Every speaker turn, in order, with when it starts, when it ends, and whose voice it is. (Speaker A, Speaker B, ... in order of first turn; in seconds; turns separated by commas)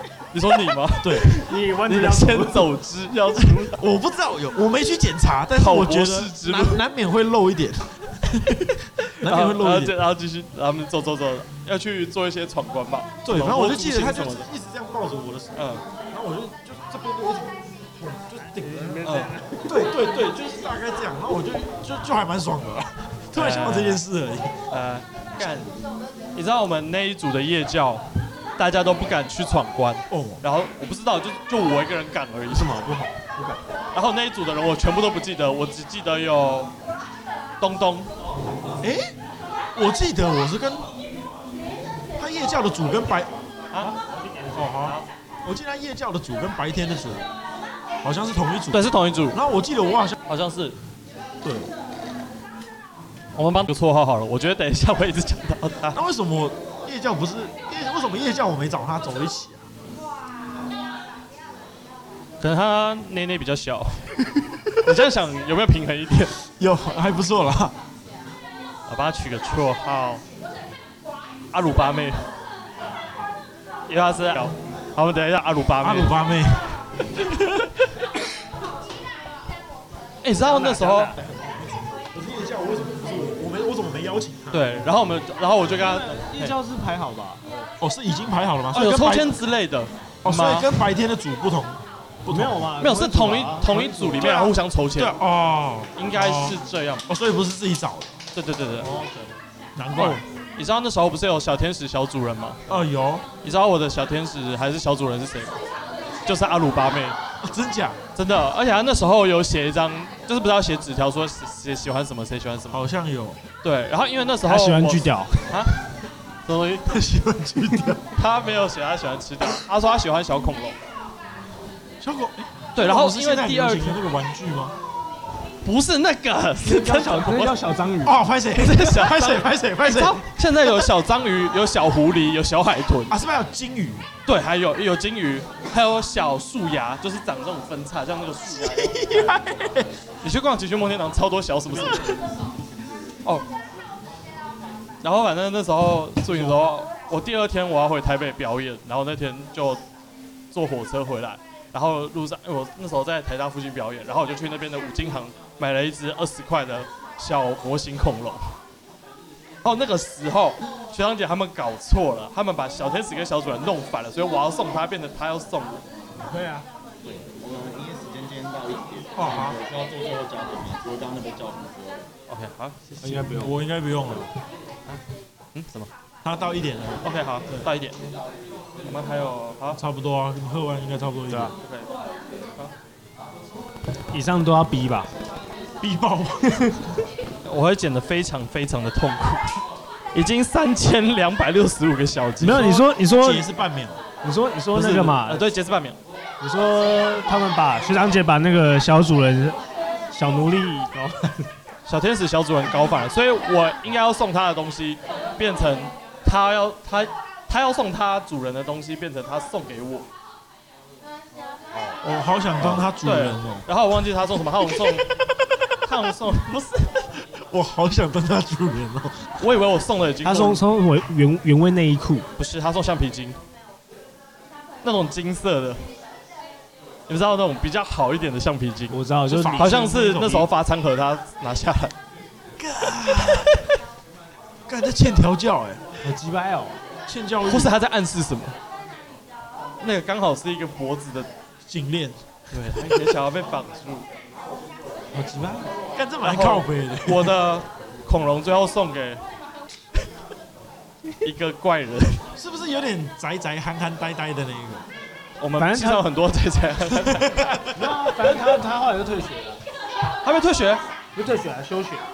Speaker A: 0.3-3.8, Speaker B: 1.0-1.3, Speaker C: 1.4-2.8, Speaker B: 3.4-9.9, Speaker A: 5.5-6.8, Speaker A: 9.2-14.5, Speaker B: 13.2-19.1, Speaker A: 15.6-15.8, Speaker C: 18.6-19.9, Speaker A: 19.0-19.3, Speaker B: 19.6-24.6, Speaker A: 23.3-24.0, Speaker A: 24.7-25.8, Speaker A: 26.3-28.0, Speaker A: 28.6-32.9, Speaker B: 30.1-30.4, Speaker C: 32.5-33.6, Speaker A: 33.9-36.7, Speaker A: 37.6-38.1, Speaker B: 38.8-39.1, Speaker B: 39.7-40.9, Speaker B: 42.1-43.3, Speaker A: 43.7-44.0, Speaker C: 43.8-44.9, Speaker B: 44.5-47.3, Speaker A: 44.8-45.1, Speaker B: 48.0-50.2, Speaker A: 48.7-49.4, Speaker A: 50.3-50.8, Speaker B: 51.4-51.7, Speaker A: 53.3-56.0, Speaker B: 55.9-59.7, Speaker A: 62.4-64.2, Speaker B: 64.4-64.7, Speaker A: 64.8-66.3, Speaker B: 66.5-67.8, Speaker A: 68.9-70.2, Speaker A: 71.5-72.2, Speaker A: 73.9-76.1, Speaker B: 75.8-77.7, Speaker A: 80.2-81.1, Speaker C: 80.4-81.3, Speaker B: 81.2-84.8, Speaker A: 84.5-86.6, Speaker C: 85.8-87.7, Speaker B: 87.8-89.4, Speaker A: 88.7-90.8, Speaker B: 90.2-92.6, Speaker C: 92.3-94.3, Speaker A: 92.8-95.2, Speaker B: 94.1-98.1, Speaker A: 96.0-97.0, Speaker A: 98.3-98.9, Speaker B: 99.7-100.2, Speaker A: 99.9-102.6, Speaker B: 102.7-103.3, Speaker A: 103.4-105.5, Speaker A: 106.2-107.2, Speaker B: 107.4-108.0, Speaker A: 108.1-112.8, Speaker B: 112.7-113.4, Speaker A: 113.6-115.8, Speaker C: 114.4-115.6, Speaker A: 116.5-116.9, Speaker B: 116.8-118.1, Speaker A: 118.1-120.8, Speaker B: 122.0-124.7, Speaker A: 122.8-124.0, Speaker A: 125.6-127.6, Speaker C: 126.6-128.3, Speaker B: 128.0-130.9, Speaker A: 128.5-133.1, Speaker B: 133.1-134.1, Speaker A: 134.2-139.3, Speaker B: 138.5-139.9, Speaker A: 140.2-142.2, Speaker A: 145.0-149.8, Speaker B: 146.3-146.6, Speaker A: 150.5-158.4, Speaker A: 159.6-165.8, Speaker C: 166.2-166.7, Speaker D: 167.0-172.1, Speaker B: 169.1-169.6, Speaker A: 172.3-173.0, Speaker C: 173.0-173.6, Speaker B: 173.0-174.3, Speaker A: 175.5-175.9, Speaker B: 176.2-177.7, Speaker A: 177.0-178.0, Speaker A: 178.8-179.8, Speaker B: 179.7-181.5, Speaker A: 181.5-181.9, Speaker C: 184.1-185.1, Speaker B: 185.8-186.8, Speaker A: 187.4-192.8, Speaker C: 192.4-193.4, Speaker B: 192.4-194.0, Speaker C: 194.2-195.5, Speaker A: 194.7-196.0, Speaker C: 196.4-199.6, Speaker C: 200.1-201.5, Speaker A: 201.8-210.1, Speaker B: 212.0-213.7, Speaker A: 212.6-215.2, Speaker A: 215.8-217.1, Speaker B: 217.4-219.3, Speaker A: 219.4-220.6, Speaker C: 220.2-222.2, Speaker A: 222.4-223.4, Speaker A: 224.8-225.8, Speaker A: 227.1-228.9, Speaker C: 228.9-229.8, Speaker B: 229.2-230.5, Speaker A: 229.5-231.9, Speaker B: 232.6-233.6, Speaker B: 234.7-235.9, Speaker C: 236.0-236.8, Speaker B: 237.1-237.8, Speaker A: 237.4-238.6, Speaker A: 239.8-241.3, Speaker B: 241.7-242.9, Speaker A: 242.5-244.1, Speaker C: 245.2-245.7, Speaker B: 245.5-247.4, Speaker A: 246.2-249.2, Speaker A: 251.2-252.2, Speaker B: 252.3-254.8, Speaker A: 255.4-257.6, Speaker C: 255.6-256.1, Speaker B: 257.0-257.7, Speaker C: 257.7-259.6, Speaker A: 260.2-260.8, Speaker C: 261.1-262.1